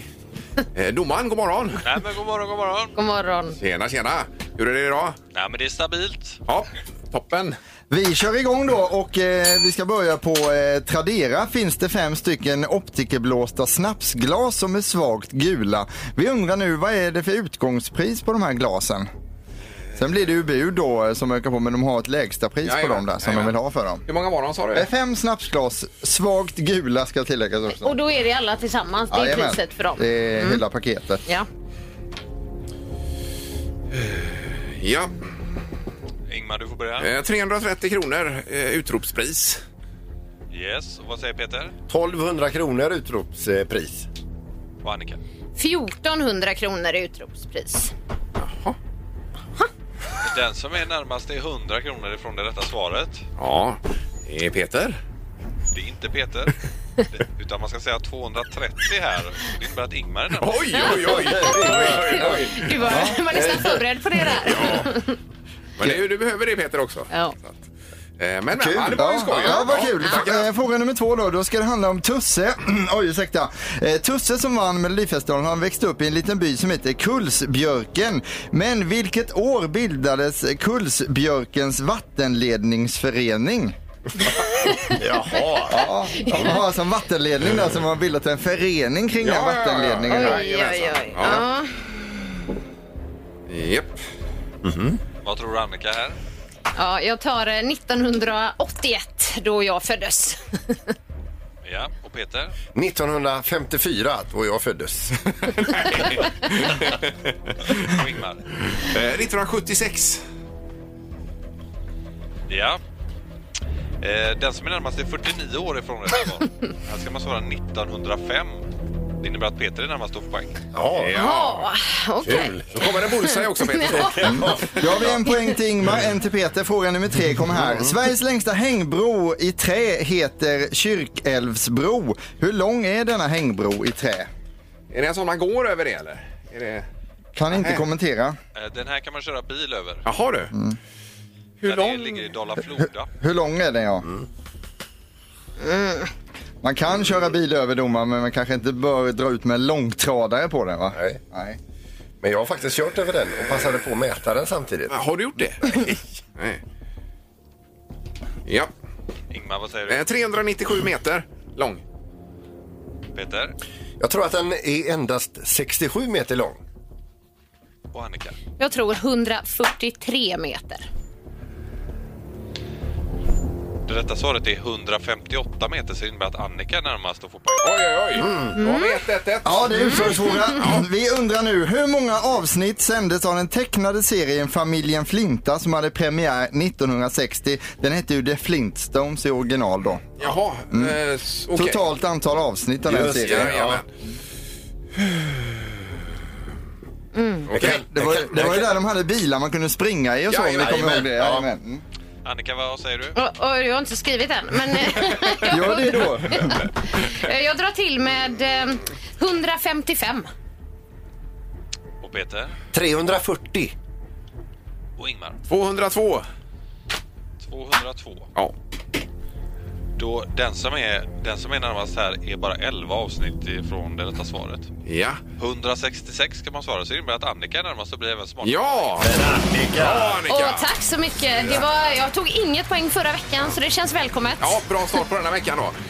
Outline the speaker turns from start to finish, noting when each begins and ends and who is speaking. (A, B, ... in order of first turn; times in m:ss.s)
0:00.7-0:01.9 A
0:01.8-0:02.9 B
0:03.0-0:03.6 C
0:03.6-0:05.2 A
0:05.3-0:06.4 B
0:06.5-0:07.6 A
0:07.9-0:19.1 D
0:20.0-0:24.0 D
0:22.6-0:24.9 A
0:24.8-0:28.0 D
0:27.7-0:30.6 C
0:29.1-0:31.2 D
0:33.9-0:35.2 A
0:36.3-0:37.1 B
0:37.0-0:39.6 A
0:40.5-0:41.7 B
0:41.9-0:44.1 E
0:44.8-0:45.2 B
0:45.6-0:47.9 C
0:48.4-0:48.8 A
0:50.2-0:53.2 B
0:53.4-0:55.0 A
0:55.7-0:56.5 B
0:57.1-1:00.9 B
1:00.4-1:02.7 A
1:00.8-1:05.2 C
1:01.1-1:02.5 E
1:02.9-1:03.2 D
1:04.4-1:04.9 A
1:05.8-1:07.6 A
1:08.2-1:10.5 A
1:08.5-1:09.1 E
1:09.0-1:23.8 D
1:09.3-1:10.2 C
1:24.2-1:25.0 C
1:25.0-1:25.8 E
1:25.7-1:30.4 D
1:25.7-1:26.6 C
1:29.2-1:31.4 A
1:30.1-1:31.8 C
1:33.5-1:34.0 A
1:34.6-1:35.0 E
1:35.2-1:36.2 B
1:36.8-1:40.8 C
1:41.6-1:42.5 B
1:42.8-1:45.2 E
1:45.6-1:47.0 A
1:47.8-1:48.4 B
1:48.7-1:50.2 A
1:52.5-1:52.8 B
1:54.0-1:58.6 B
1:59.2-2:00.6 B
2:00.7-2:01.2 E
2:01.0-2:01.7 A
2:01.1-2:05.6 C
2:02.2-2:02.7 E
2:02.3-2:04.6 A
2:04.2-2:04.6 E
2:04.5-2:14.3 D
2:07.6-2:08.0 E
2:14.9-2:16.9 A
2:17.4-2:18.4 D
2:17.5-2:17.8 A
2:18.6-2:20.0 B
2:20.1-2:20.5 A
2:20.5-2:20.8 D
2:21.6-2:22.2 A
2:21.6-2:23.1 B
2:23.2-2:24.1 D
2:25.6-2:26.1 C
2:26.6-2:31.6 D
2:30.9-2:31.2 E
2:32.2-2:35.0 E
2:34.9-2:36.6 A
2:38.4-2:38.7 A
2:39.3-2:40.1 B
2:39.9-2:41.8 A
2:43.2-2:43.6 B
2:44.0-2:46.6 E
2:47.9-2:48.4 B
2:48.6-2:50.9 C
2:53.9-2:58.1 B
2:57.6-3:00.8 A
2:58.2-2:58.6 E
2:58.6-2:59.0 C
2:59.4-3:11.0 D
2:59.8-3:00.6 C
3:10.2-3:11.8 A
3:11.5-3:13.6 D
3:12.9-3:13.8 E
3:13.1-3:13.9 A
3:15.0-3:15.5 A
3:17.2-3:17.5 C
3:17.5-3:17.8 A
3:17.5-3:18.7 E
3:17.6-3:21.8 D
3:20.3-3:21.1 A
3:20.5-3:21.5 E
3:22.2-3:23.2 B
3:23.2-3:30.3 C
3:25.5-3:26.6 D
3:32.0-3:32.5 B
3:32.7-3:33.7 E
3:35.0-3:35.4 B
3:35.5-3:36.3 A
3:37.4-3:38.3 B
3:40.0-3:44.7 B
3:44.9-3:45.2 A
3:45.4-3:49.0 B
3:48.4-3:49.1 A
3:49.0-3:50.2 E
3:49.8-3:50.7 A
3:50.3-3:54.6 C
3:54.4-3:55.8 A